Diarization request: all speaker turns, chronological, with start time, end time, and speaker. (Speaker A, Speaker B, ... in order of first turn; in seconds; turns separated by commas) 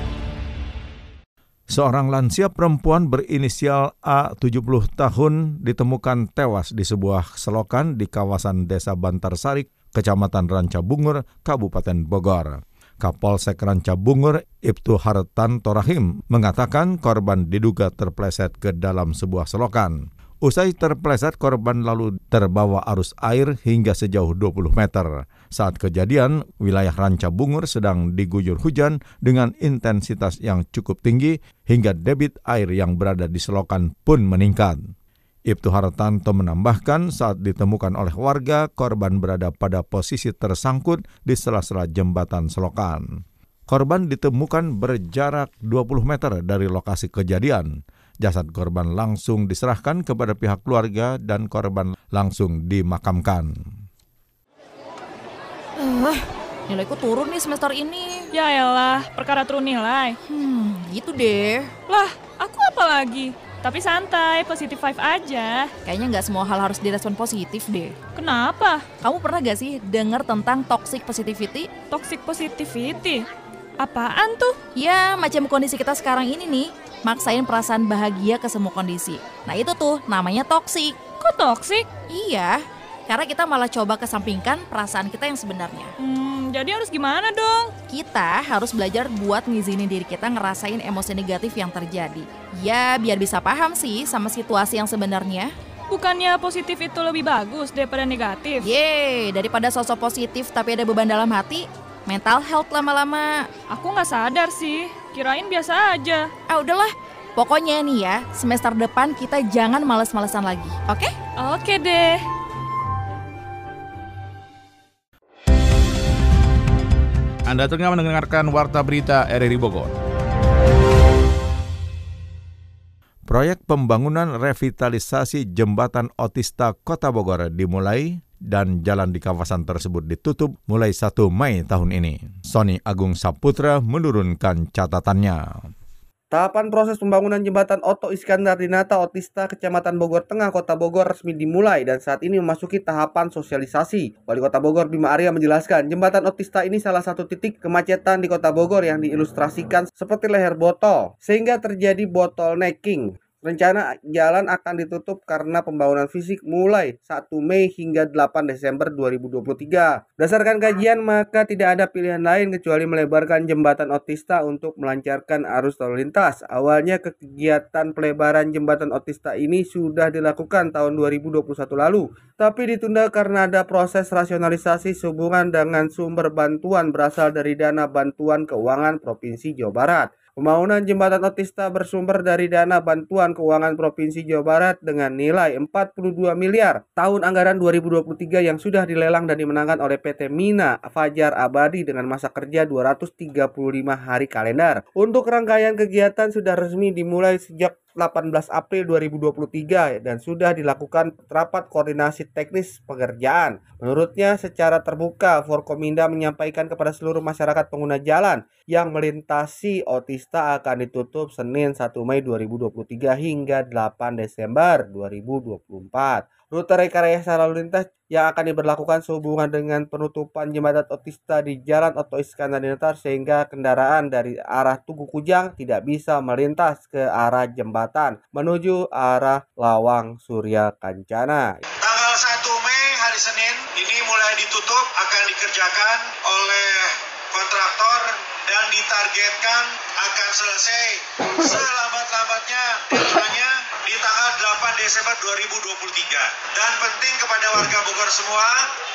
Speaker A: 1.7-34.8, Speaker A: 35.5-43.1, Speaker A: 43.7-53.5, Speaker B: 55.8-58.3, Speaker C: 58.3-60.2, Speaker B: 60.2-61.7, Speaker C: 61.9-65.7, Speaker B: 65.8-68.0, Speaker C: 68.1-68.9, Speaker B: 69.0-71.7, Speaker C: 71.9-73.3, Speaker C: 73.8-74.6, Speaker B: 74.7-81.1, Speaker C: 81.2-81.9, Speaker B: 82.1-85.9, Speaker C: 86.0-87.7, Speaker B: 87.9-95.5, Speaker C: 95.9-98.7, Speaker B: 98.6-103.5, Speaker C: 103.7-106.3, Speaker B: 106.5-111.2, Speaker C: 111.4-112.2, Speaker D: 117.5-119.9, Speaker A: 123.3-135.6, Speaker E: 136.3-231.4, Speaker F: 231.8-248.7